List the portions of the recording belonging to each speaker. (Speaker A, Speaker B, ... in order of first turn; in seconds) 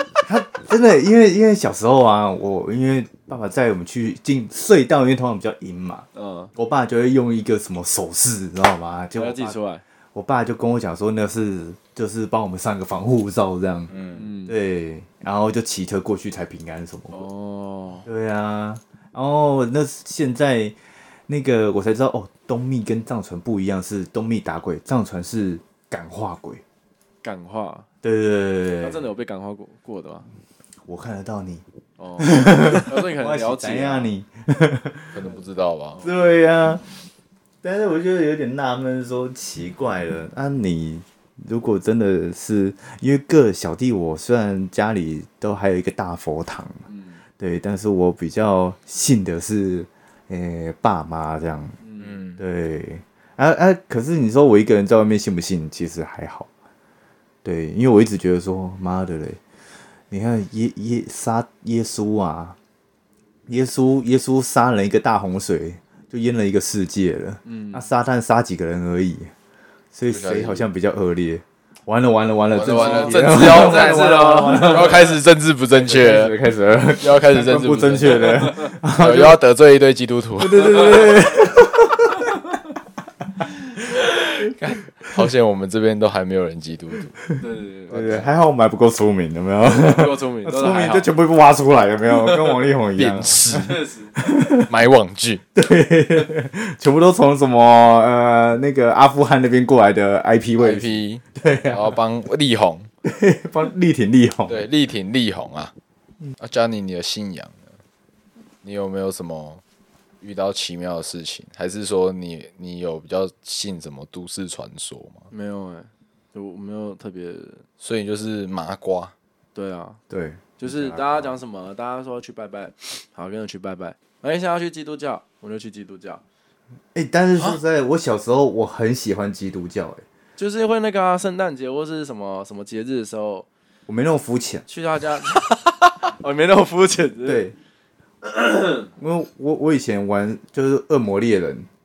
Speaker A: 0.2-9.6, 10.2-13.9, 14.5-17.2, 18.1-20.8, 21.3-26.6, 28.0-29.1, 30.9-31.6, 32.2-35.1, 36.0-36.8, 37.6-46.8, 47.4-51.8, 52.4-56.5, 57.4-59.4, 60.1-62.6, 63.5-69.3, 69.9-75.2, 75.8-79.4, 80.4-82.3, 87.9-94.7, 95.5-102.0, 103.0-104.6, 120.1-121.0, 126.9-130.0, 133.9-134.7, 137.2-137.6, 139.0-141.7
Speaker B: 6.2-6.5, 9.2-9.8, 14.2-14.6, 17.1-18.1, 27.2-27.9, 28.8-30.3, 32.0-34.1, 46.9-47.2, 51.8-52.1, 67.5-67.8, 72.7-75.1, 87.4-88.0, 89.6-91.1, 92.1-92.6, 93.5-94.1, 115.3-117.7, 119.5-120.0, 120.6-126.2, 130.4-133.5, 134.7-137.4, 138.2-138.9
Speaker C: 13.9-14.3, 35.1-36.1, 52.0-52.4, 70.1-70.7, 72.5-76.4, 77.0-81.1, 84.4-87.2, 87.9-88.3, 93.0-93.8, 94.6-95.4, 100.6-102.9, 104.5-105.7, 106.4-107.6, 108.6-109.6, 110.2-115.3, 117.8-119.1, 120.7-121.3